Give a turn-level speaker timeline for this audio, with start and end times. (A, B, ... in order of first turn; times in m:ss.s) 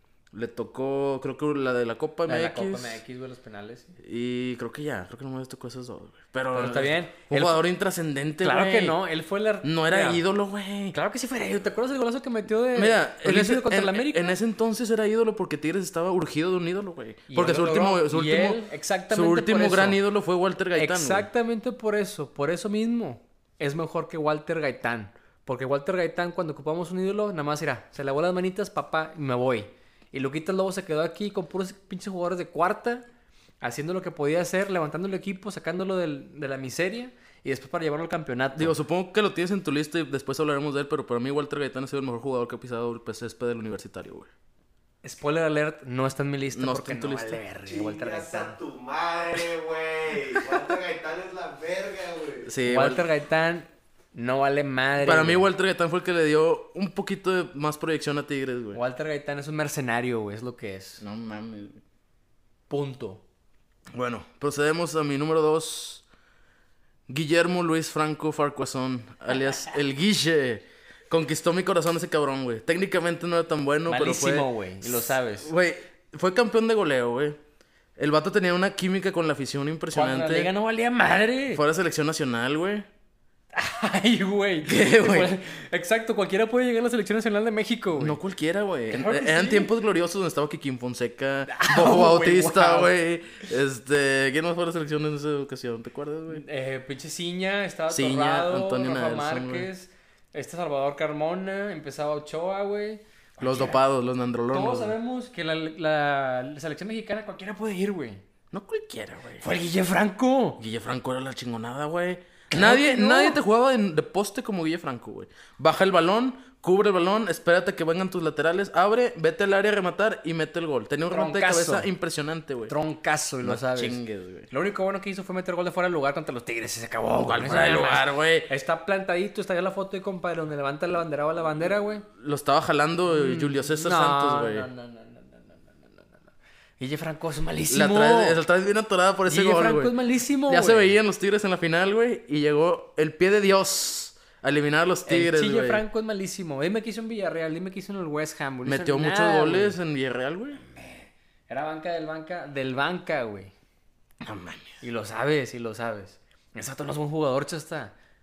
0:00.3-0:03.0 A
0:02.3-0:04.0 B
0:04.0-0:09.0 A
0:06.5-0:07.6 B
0:08.4-0:10.2 B
0:09.6-0:11.0 A
0:10.9-0:14.4 B
0:12.7-0:21.3 A
0:17.3-0:20.0 B
0:20.8-0:33.0 B
0:33.6-0:38.8 B
0:38.6-0:44.3 A
0:45.0-0:48.6 B
0:46.5-0:47.4 A
0:47.7-0:52.5 C
0:52.4-0:53.0 A
0:52.6-0:55.5 B
0:55.0-0:58.8 A
0:58.7-1:01.0 B
1:01.0-1:01.8 A
1:02.7-1:03.2 B
1:03.9-1:06.0 A
1:07.1-1:17.4 A
1:13.9-1:15.5 B
1:18.0-1:20.5 A
1:19.9-1:21.6 B
1:21.5-1:22.9 A
1:23.5-1:28.2 B
1:24.6-1:25.3 A
1:28.0-1:36.4 A
1:28.9-1:29.7 B
1:31.5-1:32.9 B
1:36.3-1:43.8 B
1:37.9-1:39.7 A
1:43.4-1:45.0 A
1:44.5-1:48.2 B
1:48.5-1:49.4 A
1:49.4-1:50.6 B
1:50.6-2:02.7 A
1:52.5-1:53.4 B
2:01.1-2:01.9 B
2:02.7-2:12.1 B
2:03.4-2:04.5 A
2:07.2-2:08.5 A
2:12.2-2:14.7 A
2:13.1-2:18.4 B
2:17.7-2:20.0 A
2:19.3-2:20.9 B
2:20.5-2:25.8 A
2:25.1-2:29.8 B
2:28.6-2:30.6 A
2:30.6-2:33.5 B
2:34.2-2:34.8 A
2:34.8-2:38.0 B